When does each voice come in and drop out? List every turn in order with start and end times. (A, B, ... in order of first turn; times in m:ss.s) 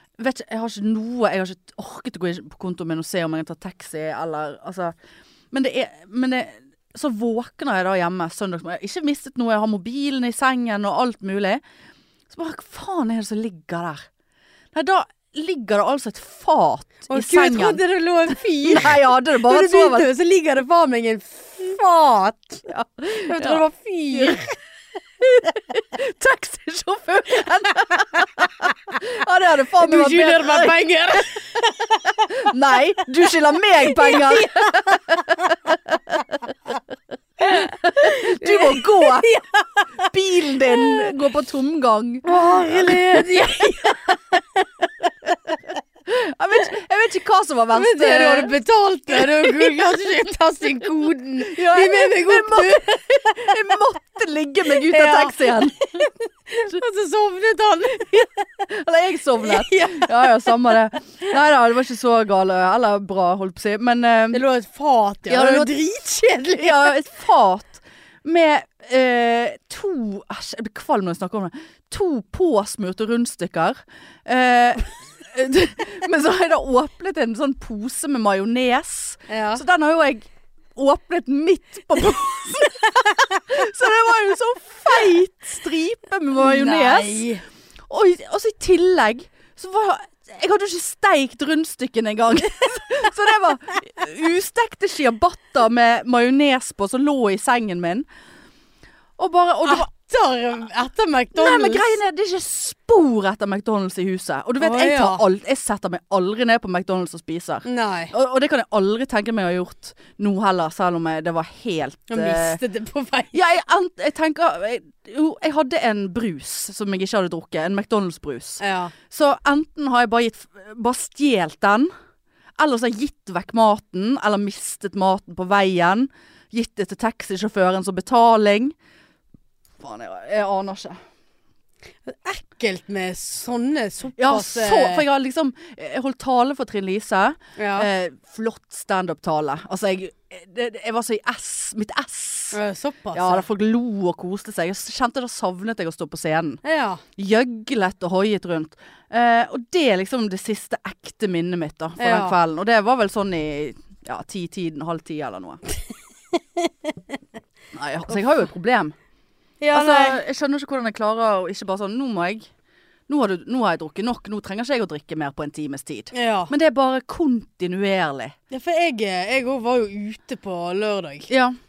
0:00.2-0:05.0 A
0:05.5-0:11.6 A
0:12.3-0:14.1 A
0:14.7-0:20.1 A
0:17.1-0:24.6 B
0:22.7-0:24.4 A
0:25.2-0:31.2 A
0:27.7-0:29.0 B
0:29.8-0:32.3 B
0:32.3-0:36.2 A
0:33.8-0:35.6 B
0:37.4-0:40.1 B
0:37.4-0:39.3 A
0:40.1-0:44.0 A
0:40.6-0:41.1 B
0:42.2-0:45.6 B
0:46.1-0:48.6 A
0:47.7-0:53.7 B
0:49.1-0:50.2 A
0:51.4-0:55.8 A
0:54.7-0:58.7 B
0:58.7-1:04.4 A
0:59.4-1:00.8 B
1:04.3-1:07.0 B
1:05.3-1:05.7 A
1:06.6-1:27.3 A
1:19.3-1:19.6 B
1:26.4-1:27.4 B
1:27.9-1:38.0 A
1:39.2-1:39.9 A
1:39.6-1:42.0 B
1:41.4-1:52.6 A
1:44.6-1:45.2 B
1:47.6-1:48.1 B
1:52.1-1:53.4 B
1:53.3-2:01.9 A
1:58.6-1:58.9 B
2:02.6-2:08.7 A
2:09.8-2:11.0 A
2:12.1-2:15.0 B
2:14.2-2:22.6 A
2:17.6-2:17.9 B
2:22.5-2:23.5 B
2:23.1-2:26.6 A
2:26.6-2:27.0 B
2:27.2-2:35.6 A
2:32.0-2:32.4 B
2:36.4-2:36.9 B
2:37.7-2:39.0 A
2:39.6-2:40.2 B
2:39.7-2:42.5 A
2:43.1-2:48.4 A
2:46.1-2:46.5 B
2:48.5-2:51.3 B
2:51.3-2:51.6 A